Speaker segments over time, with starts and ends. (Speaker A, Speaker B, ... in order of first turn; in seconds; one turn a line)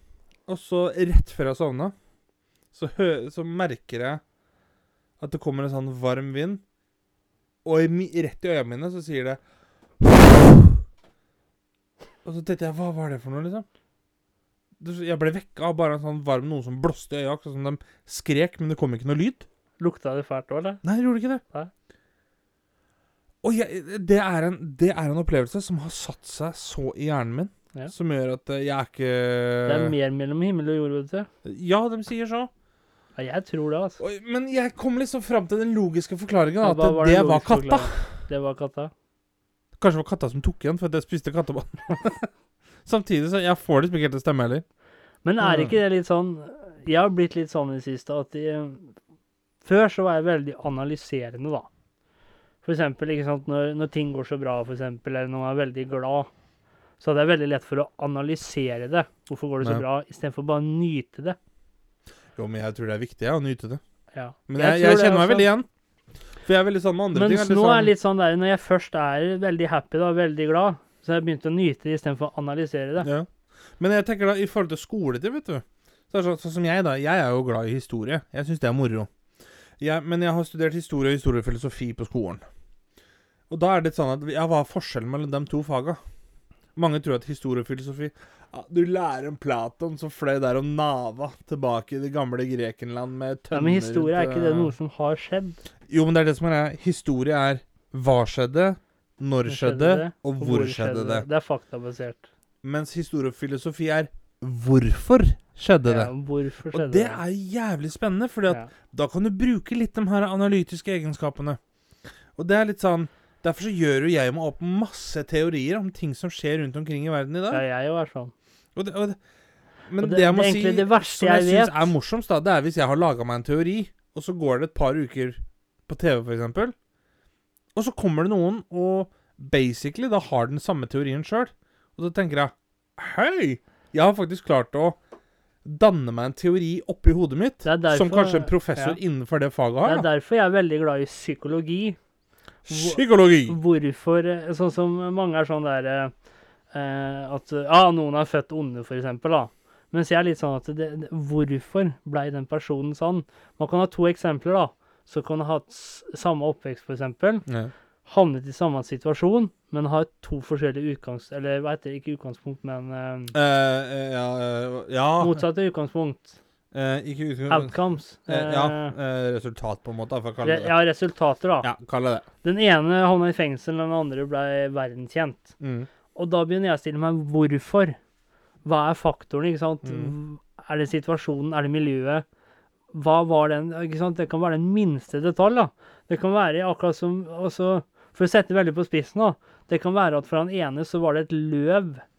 Speaker A: 0.5-1.9
Speaker A: 2.7-4.2
Speaker A: 5.2-6.6
Speaker A: 7.6-9.4
Speaker A: 10.0-10.8
Speaker A: 12.2-13.7
Speaker A: 14.8-19.5
Speaker B: 19.8-20.8
Speaker A: 20.8-21.4
Speaker A: 23.4-29.9
Speaker B: 29.6-31.3
Speaker A: 31.4-32.5
Speaker B: 33.2-34.0
Speaker A: 34.0-38.0
Speaker B: 36.6-38.9
Speaker A: 39.8-42.3
Speaker A: 42.9-44.6
Speaker B: 45.2-48.9
Speaker A: 45.4-45.8
Speaker B: 49.6-51.7
Speaker B: 52.6-56.3
Speaker B: 57.0-61.4
Speaker A: 62.4-63.8
Speaker B: 64.1-65.5
Speaker A: 64.5-65.7
Speaker A: 66.4-67.9
Speaker B: 67.1-73.1
Speaker A: 73.0-73.3
Speaker A: 73.8-79.1
Speaker A: 79.8-82.4
Speaker A: 83.5-86.0
Speaker A: 86.8-94.7
Speaker B: 93.5-95.6
Speaker A: 95.9-101.2
Speaker B: 99.5-102.3
Speaker A: 102.6-106.1
Speaker B: 105.8-107.2
Speaker A: 106.7-111.6
Speaker A: 112.4-117.6
Speaker B: 117.5-118.3
Speaker A: 118.8-119.2
Speaker A: 119.9-126.7
Speaker B: 120.0-121.9
Speaker A: 127.8-135.0
Speaker A: 135.7-140.1
Speaker B: 137.7-139.0
Speaker B: 139.8-142.0
Speaker A: 142.7-143.6
Speaker B: 142.7-146.1
Speaker B: 146.7-157.4
Speaker A: 157.5-157.7
Speaker B: 158.1-163.3
Speaker A: 163.3-165.4
Speaker B: 165.2-166.3
Speaker A: 166.7-167.8
Speaker B: 167.5-168.9
Speaker A: 168.3-170.7
Speaker B: 170.4-171.7
Speaker A: 171.6-172.3
Speaker B: 172.4-175.6
Speaker A: 175.6-175.9
Speaker B: 176.2-178.0
Speaker B: 178.7-182.2
Speaker A: 179.8-180.1
Speaker B: 182.9-192.0